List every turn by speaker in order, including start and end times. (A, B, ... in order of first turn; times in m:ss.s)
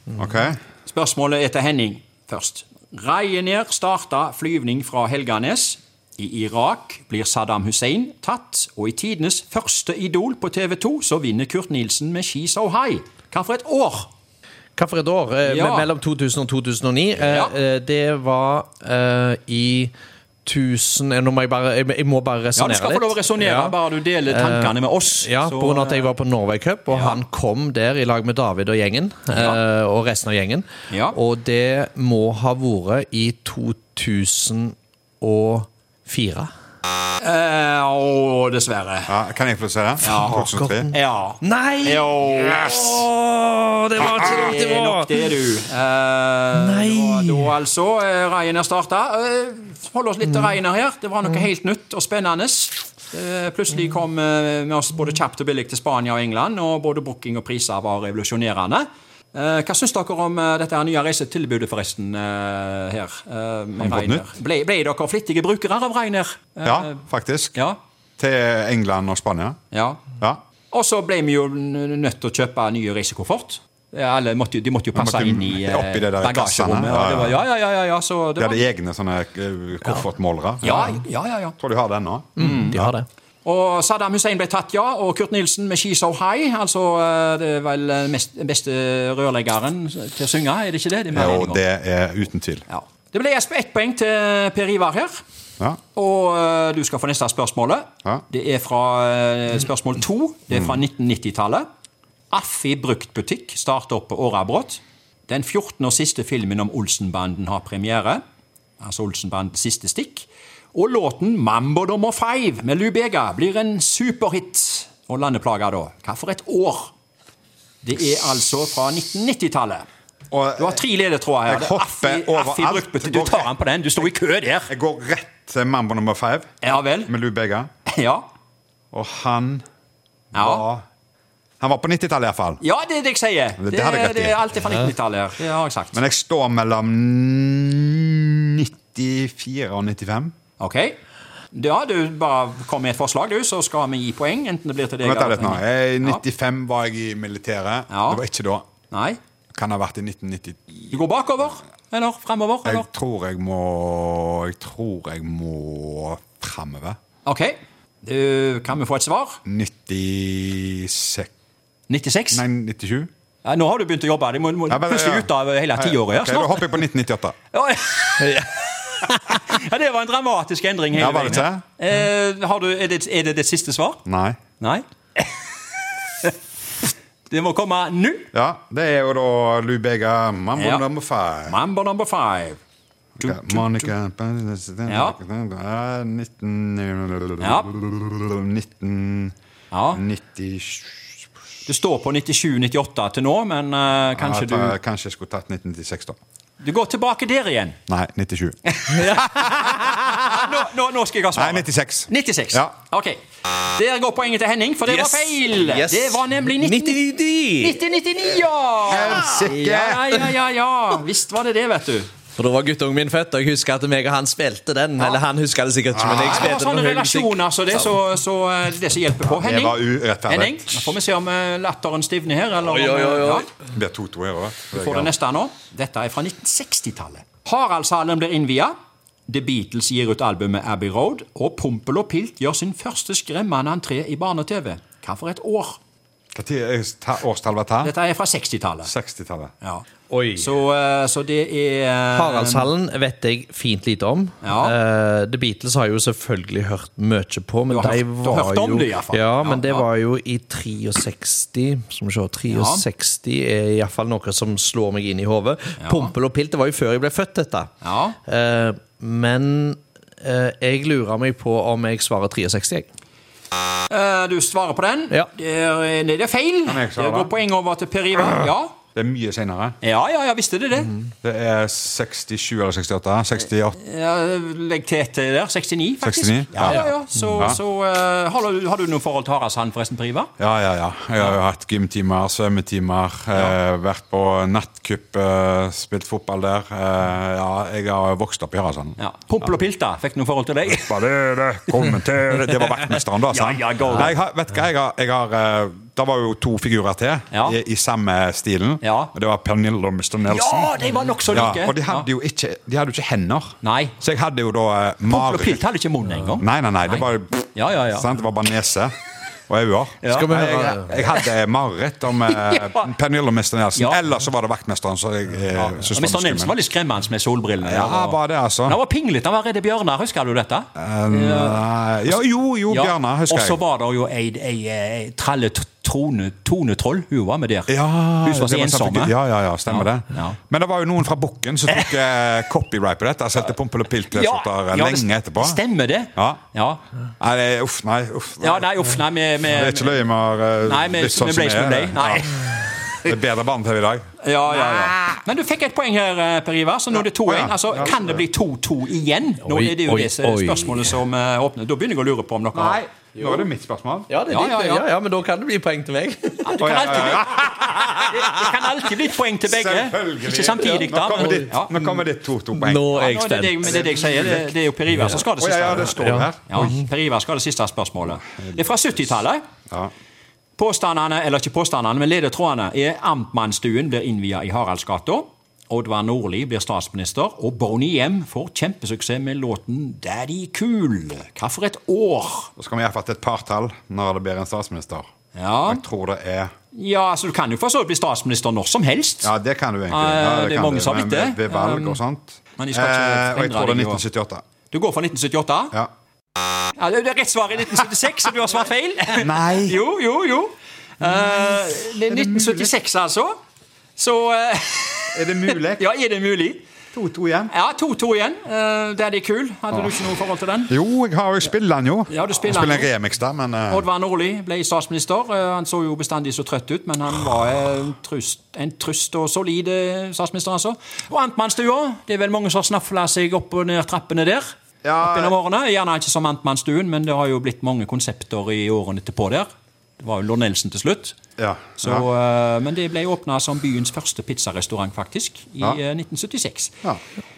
0:00.2-0:00.6 A
0:00.9-0:14.1 B
0:14.8-0:19.9 C
0:15.4-0:15.9 B
0:17.2-0:17.6 B
0:20.4-0:36.5 C
0:22.6-0:26.1 B
0:26.9-0:27.2 B
0:29.3-0:29.6 B
0:30.9-0:31.2 B
0:37.2-0:39.1 B
0:39.1-0:40.9 A
0:40.0-0:43.1 B
0:40.2-0:45.2 C
0:44.0-1:06.9 B
0:46.6-0:47.5 C
1:03.8-1:04.2 A
1:06.6-1:07.6 A
1:08.2-1:09.6 A
1:09.7-1:10.1 B
1:10.7-1:18.6 B
1:15.0-1:17.4 A
1:18.4-1:21.0 A
1:20.6-1:21.6 B
1:21.6-1:22.9 A
1:22.4-1:23.1 C
1:22.4-1:22.9 B
1:23.4-1:31.6 B
1:31.1-1:32.7 A
1:32.7-1:35.2 B
1:36.0-1:41.7 B
1:40.5-1:40.8 A
1:42.3-1:48.2 B
1:48.8-1:56.9 B
1:57.8-1:59.9 B
2:00.3-2:00.8 A
2:00.6-2:04.7 B
2:01.5-2:03.5 A
2:04.7-2:06.5 A
2:06.6-2:07.1 B
2:07.0-2:07.7 A
2:07.9-2:08.2 B
2:08.9-2:09.6 A
2:10.3-2:10.8 A
2:10.3-2:10.6 B
2:11.6-2:12.6 A
2:12.6-2:16.0 B
2:13.6-2:14.4 A
2:15.9-2:20.3 A
2:20.6-2:21.0 B
2:21.5-2:26.2 B
2:25.0-2:28.7 A
2:27.9-2:28.2 B
2:28.9-2:29.2 B
2:29.5-2:30.8 A
2:30.9-2:32.9 B
2:32.6-2:37.0 A
2:37.2-2:39.4 B
2:39.4-2:41.3 A
2:41.9-2:42.4 B
2:42.3-2:43.1 A
2:43.4-2:46.8 B
2:44.7-2:47.4 A
2:47.5-2:54.0 B
2:50.9-2:51.6 A
2:54.1-2:54.4 A
2:54.6-2:55.3 B
2:57.3-2:58.3 B
2:58.3-3:01.6 A
3:00.6-3:00.8 B
3:01.5-3:02.6 B
3:03.2-3:09.4 A
3:03.2-3:03.9 B
3:04.9-3:05.2 B
3:07.4-3:07.7 B
3:09.7-3:10.0 B
3:09.9-3:11.2 A
3:11.7-3:14.8 B
3:14.2-3:16.2 A
3:16.6-3:17.8 B
3:17.9-3:18.6 A
3:18.7-3:23.2 B
3:19.0-3:20.2 C
3:21.4-3:22.8 A
3:23.7-3:27.0 B
3:24.9-3:27.8 C
3:27.6-3:32.1 B
3:28.9-3:30.2 A
3:32.4-3:37.8 C
3:35.9-3:36.3 A
3:36.1-3:43.5 B
3:39.4-3:40.8 A
3:42.6-3:43.5 C
3:43.7-3:45.1 A
3:44.7-3:48.7 B
3:49.3-3:55.8 B
3:56.3-3:57.9 A
3:57.8-3:58.9 B
3:58.8-3:59.5 A
4:00.1-4:00.5 C
4:00.4-4:02.7 B
4:02.1-4:17.7 C
4:04.4-4:04.8 B
4:07.7-4:09.9 B
4:12.5-4:12.8 B
4:15.8-4:16.1 B
4:17.8-4:18.2 B
4:18.3-4:22.9 C
4:23.9-4:28.8 B
4:26.7-4:27.3 A
4:29.0-4:29.8 A
4:29.8-4:30.9 B
4:31.2-4:33.8 A
4:33.8-4:40.3 B
4:36.0-4:36.8 A
4:40.4-4:49.0 A
4:49.0-4:54.1 B
4:50.8-5:00.7 A
4:57.3-4:57.6 B
4:58.8-4:59.1 B
5:00.3-5:02.1 B
5:01.3-5:05.6 A
5:03.6-5:04.0 B
5:05.1-5:08.1 B
5:06.4-5:08.9 A
5:09.5-5:16.6 A
5:10.0-5:10.4 B
5:10.1-5:11.0 C
5:12.3-5:12.9 B
5:15.6-5:30.4 B
5:17.6-5:18.8 A
5:20.8-5:23.6 A
5:27.7-5:35.6 A
5:34.1-5:36.8 B
5:36.2-5:36.4 A
5:37.2-5:38.7 A
5:38.4-5:40.0 B
5:39.4-5:42.3 A
5:40.6-5:42.4 B
5:43.0-5:44.1 A
5:44.2-5:52.8 B
5:47.2-5:48.0 A
5:49.5-5:51.0 C
5:52.5-5:54.1 A
5:53.2-5:53.5 C
5:54.1-5:56.8 C
5:54.3-5:54.9 B
5:56.4-6:01.8 B
5:56.6-5:58.0 A
5:57.6-5:58.3 C
5:59.5-6:02.9 A
6:00.6-6:01.6 C
6:02.5-6:04.0 C
6:02.9-6:06.0 B
6:03.9-6:04.4 A
6:04.9-6:05.2 C
6:05.4-6:06.8 A
6:05.8-6:06.8 C
6:06.5-6:09.4 B
6:10.6-6:22.5 B
6:22.6-6:25.1 A
6:25.4-6:25.8 B
6:25.7-6:26.5 A
6:26.8-6:29.3 B
6:29.2-6:34.4 A
6:29.9-6:32.0 B
6:32.6-6:34.0 B
6:34.7-6:35.8 B
6:36.8-6:43.4 B
6:39.2-6:39.8 A
6:41.0-6:42.7 A
6:44.0-6:46.6 B
6:45.1-6:45.8 A
6:46.9-6:47.5 A
6:47.5-6:50.7 B
6:50.7-6:53.9 A
6:52.1-6:52.9 B
6:53.7-7:04.5 B
7:04.8-7:05.4 A
7:05.0-7:09.5 B
7:10.0-7:11.2 B
7:11.4-7:12.0 A
7:11.8-7:16.7 B